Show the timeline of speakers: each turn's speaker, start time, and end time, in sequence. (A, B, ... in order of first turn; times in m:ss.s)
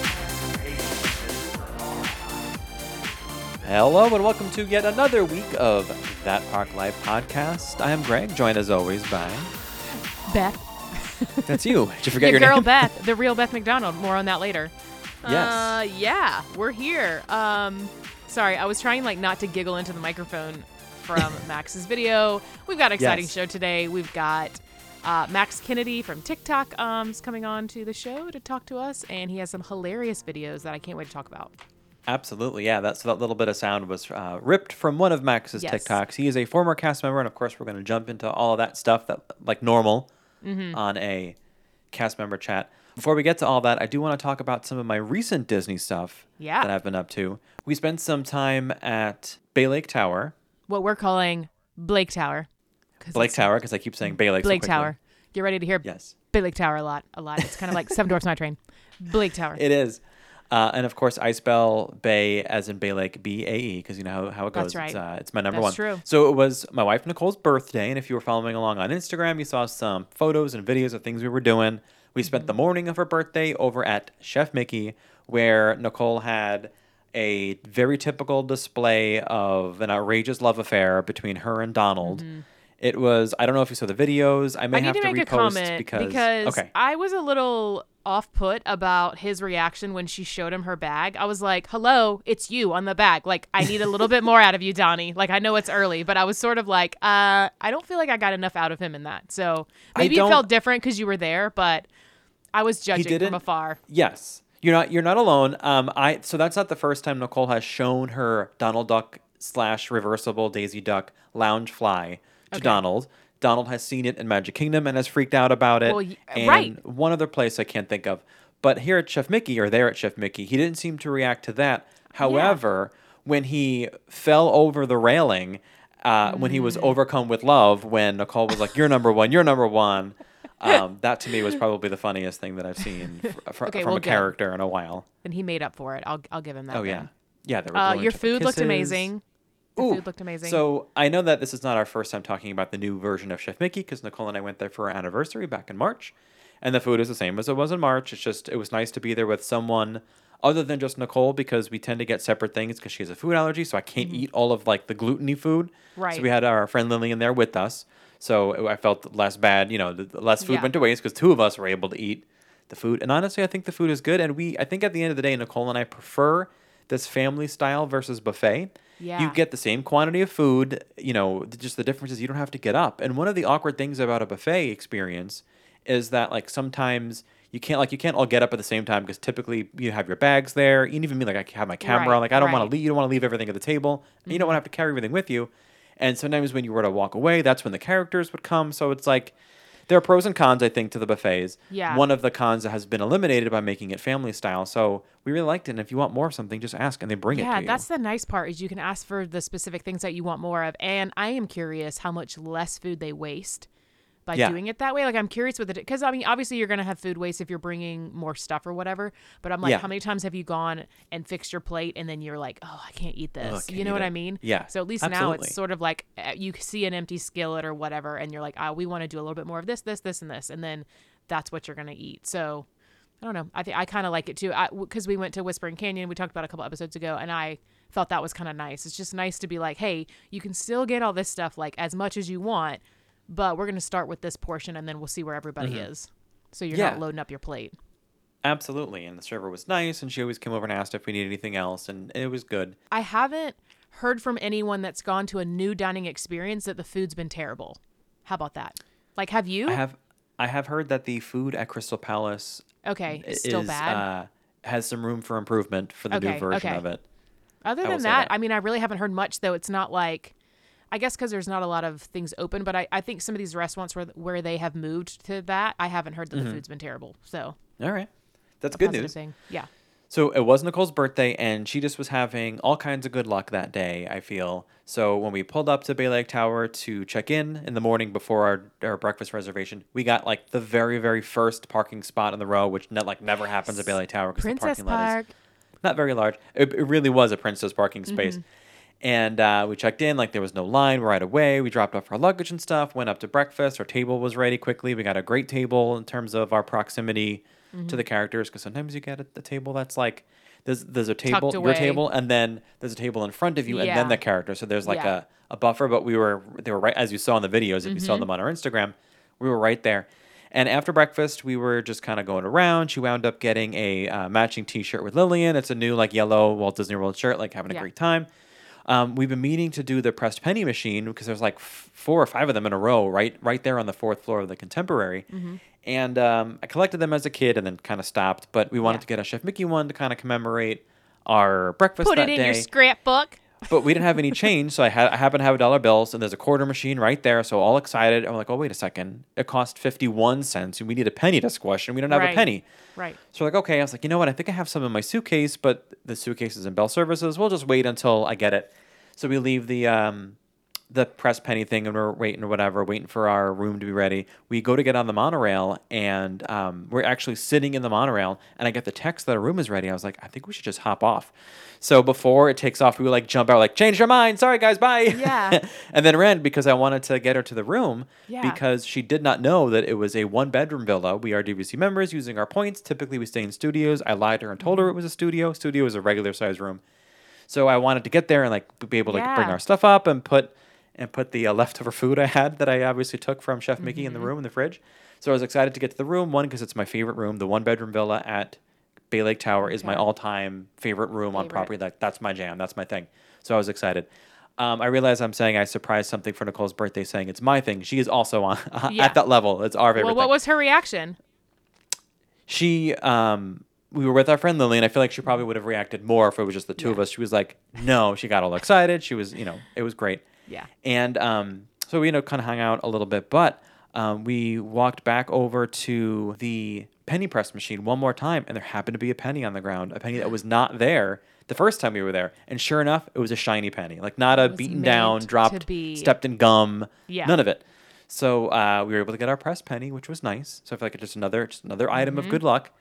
0:03.6-0:09.5 A
0:10.3-0:31.6 B
0:11.5-0:12.9 A
0:15.2-0:15.8 A
0:23.0-0:23.3 A
0:32.1-0:40.1 A
0:35.6-0:36.0 B
0:40.4-0:40.8 B
0:40.7-0:41.4 A
0:41.9-0:50.3 A
0:46.4-0:46.7 B
0:50.7-0:52.5 B
0:53.0-0:53.5 B
0:53.1-0:54.9 A
0:54.0-0:59.6 B
0:55.8-0:56.1 A
0:59.5-1:22.2 A
1:04.5-1:05.0 B
1:05.5-1:06.0 B
1:12.2-1:12.5 B
1:22.0-1:22.4 B
1:22.8-1:26.7 A
1:24.7-1:41.9 B
1:39.9-1:40.4 A
1:42.5-1:43.8 B
1:42.9-2:15.0 A
1:52.5-1:52.8 B
1:55.8-1:56.7 B
2:02.2-2:02.6 B
2:06.2-2:06.9 B
2:13.6-2:14.3 B
2:15.2-2:17.1 B
2:16.7-2:19.1 A
2:17.7-2:19.2 B
2:19.8-3:09.3 A
2:19.8-2:20.6 B
2:36.0-2:36.2 B
2:40.4-2:40.7 B
2:49.0-2:49.4 B
3:01.8-3:02.7 B
3:04.3-3:04.6 B
3:09.9-3:17.8 A
3:11.7-3:12.0 B
3:17.3-3:23.7 B
3:24.2-3:42.7 B
3:33.4-3:35.6 A
3:43.2-3:57.7 B
3:55.6-3:55.9 A
3:56.7-3:57.0 A
3:58.4-4:02.8 A
4:02.9-4:09.8 B
4:09.6-4:17.0 A
4:12.8-4:14.0 B
4:16.1-4:16.8 B
4:17.6-4:20.3 B
4:17.8-4:18.3 A
4:20.9-4:27.6 B
4:26.3-4:26.6 A
4:27.8-4:28.1 A
4:28.6-4:29.1 A
4:28.7-4:29.7 B
4:30.1-4:45.2 A
4:44.4-4:45.3 B
4:45.8-4:48.4 A
4:48.1-4:48.4 B
4:49.0-5:18.3 A
4:57.7-4:58.0 B
5:01.3-5:02.0 B
5:03.7-5:04.2 B
5:04.8-5:05.1 B
5:07.8-5:08.3 B
5:18.8-5:32.7 A
5:25.3-5:25.6 B
5:32.0-5:34.4 B
5:33.7-5:42.6 A
5:42.1-5:43.2 B
5:43.3-5:50.4 A
5:50.9-6:16.8 A
6:05.1-6:05.6 B
6:08.3-6:08.6 B
6:14.6-6:14.9 B
6:17.5-6:28.6 A
6:19.1-6:19.6 B
6:23.8-6:24.3 B
6:29.1-6:40.3 A
6:29.6-6:30.0 B
6:31.3-6:31.7 B
6:38.9-6:39.2 B
6:39.9-6:41.2 B
6:42.5-6:50.2 A
6:50.8-7:12.7 A
7:04.4-7:06.1 B
7:07.1-7:07.3 B
7:11.9-7:12.4 B